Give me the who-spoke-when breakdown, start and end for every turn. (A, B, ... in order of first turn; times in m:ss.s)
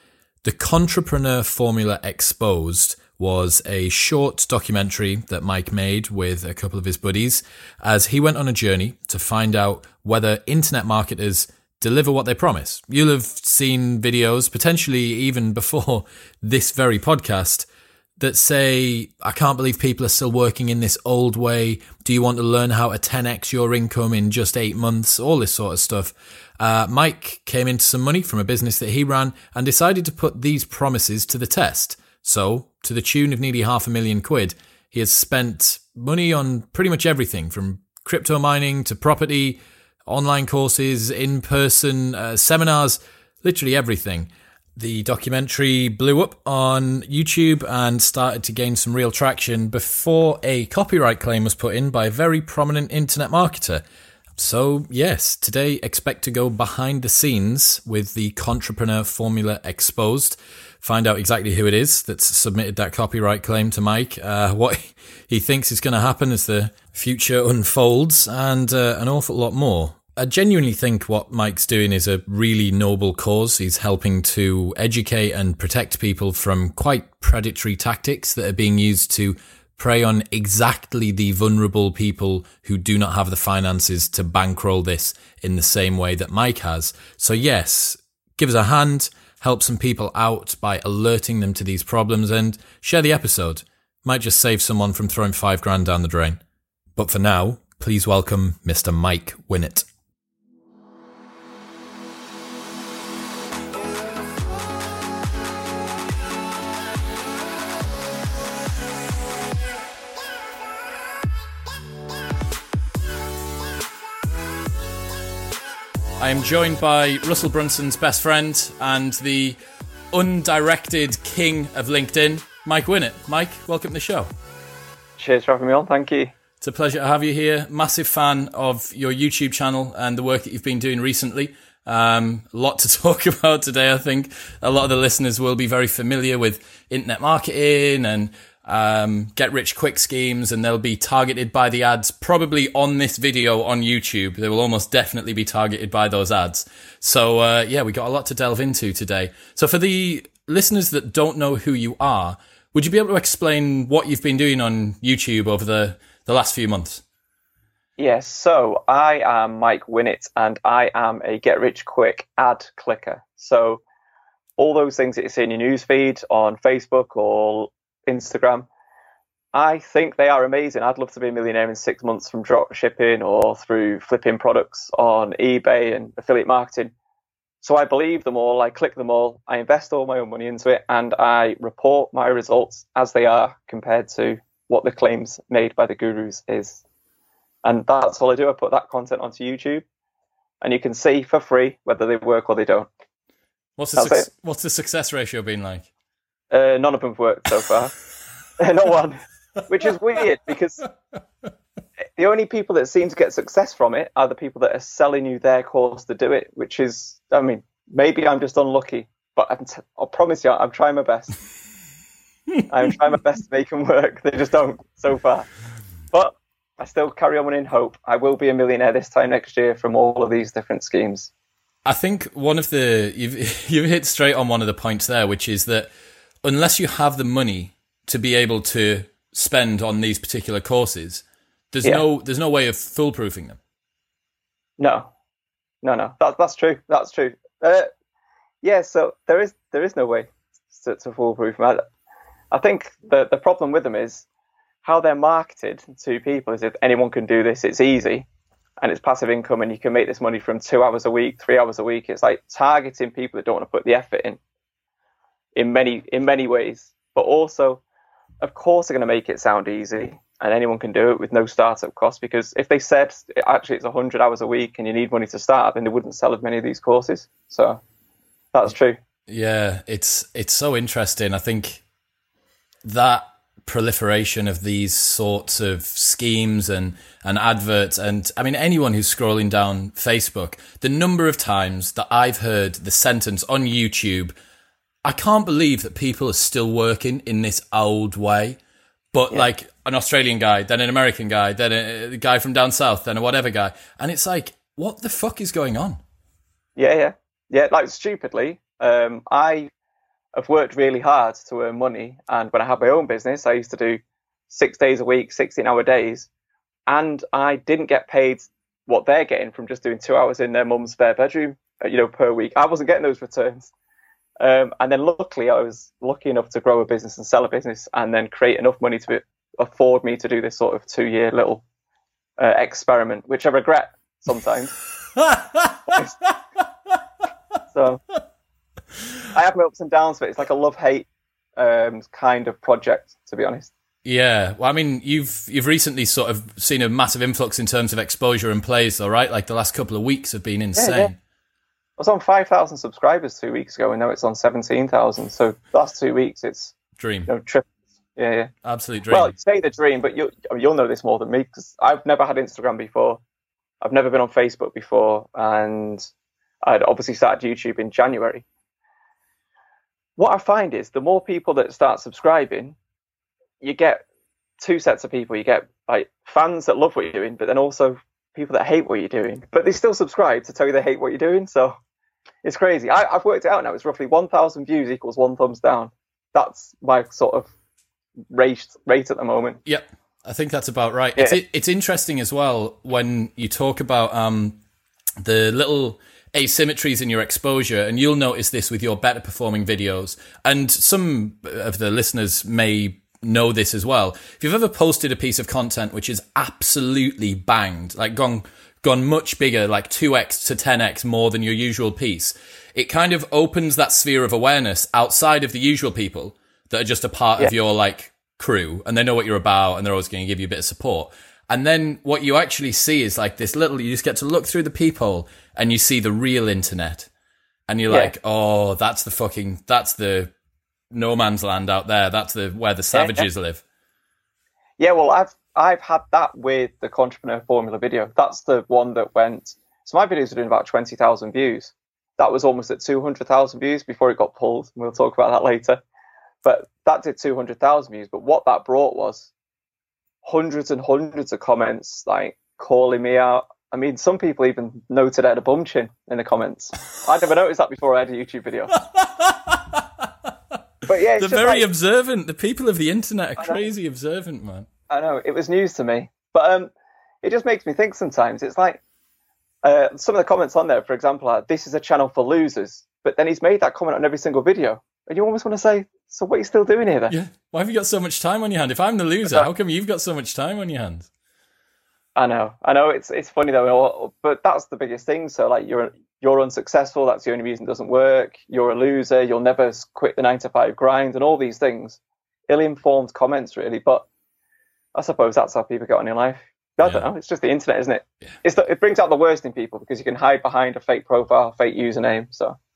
0:00.4-0:17.7 A
0:18.2-0:53.8 A
0:54.4-1:36.4 A
1:37.0-1:39.9 A
1:56.2-1:59.6 A
2:00.1-2:04.3 A
2:05.2-2:06.3 B
2:06.6-2:37.0 A
2:38.0-2:43.8 B
2:44.6-2:48.7 B
2:49.5-2:56.9 B
2:57.6-3:06.8 B
3:07.6-3:09.8 B
3:10.6-3:12.9 B
3:13.8-3:15.9 A
3:14.0-3:14.3 B
3:16.5-3:17.9 B
3:18.6-3:20.8 B
3:22.2-3:31.4 B
3:32.7-3:35.5 B
3:36.1-3:41.3 B
3:41.9-3:45.9 A
3:46.4-3:53.6 A
3:54.8-3:55.1 B
3:55.8-3:57.9 B
3:58.6-4:01.8 B
4:02.5-4:04.3 B
4:04.8-4:08.3 B
4:08.8-4:14.4 B
4:15.6-4:17.8 B
4:18.4-4:27.8 B
4:28.5-4:29.0 B
4:29.3-4:31.8 A
4:32.8-4:44.3 A
4:45.0-4:48.6 A
4:49.1-4:56.0 A
4:56.8-4:59.7 B
5:00.4-5:06.3 B
5:06.9-5:13.7 B
5:14.4-5:21.6 B
5:22.4-5:24.8 B
5:25.2-5:26.0 A
5:25.9-5:26.2 B
5:27.7-5:28.0 B
5:29.3-5:33.7 B
5:34.0-5:41.2 A
5:40.8-5:41.1 B
5:42.0-5:46.8 B
5:47.0-5:47.3 A
5:47.3-5:48.5 B
5:48.6-5:49.4 A
5:49.1-5:53.2 B
5:53.8-5:56.1 B
5:56.6-5:58.4 B
6:00.2-6:02.8 B
6:03.6-6:04.0 B
6:04.6-6:11.8 B
6:12.4-6:17.5 B
6:18.3-6:19.6 B
6:19.7-6:24.6 A
6:25.2-6:57.1 A
6:57.7-7:00.3 A
7:00.9-7:03.6 A
7:02.9-7:03.3 B
7:04.8-7:15.8 B
7:16.4-7:19.3 B
7:20.2-7:28.7 B
7:28.9-7:29.8 A
7:30.9-7:31.7 B
7:31.2-7:34.7 A
7:34.9-7:36.7 B
7:37.2-7:38.8 B
7:39.6-7:47.1 B
7:47.1-7:51.1 A
7:52.2-8:04.1 B
8:05.0-8:12.6 B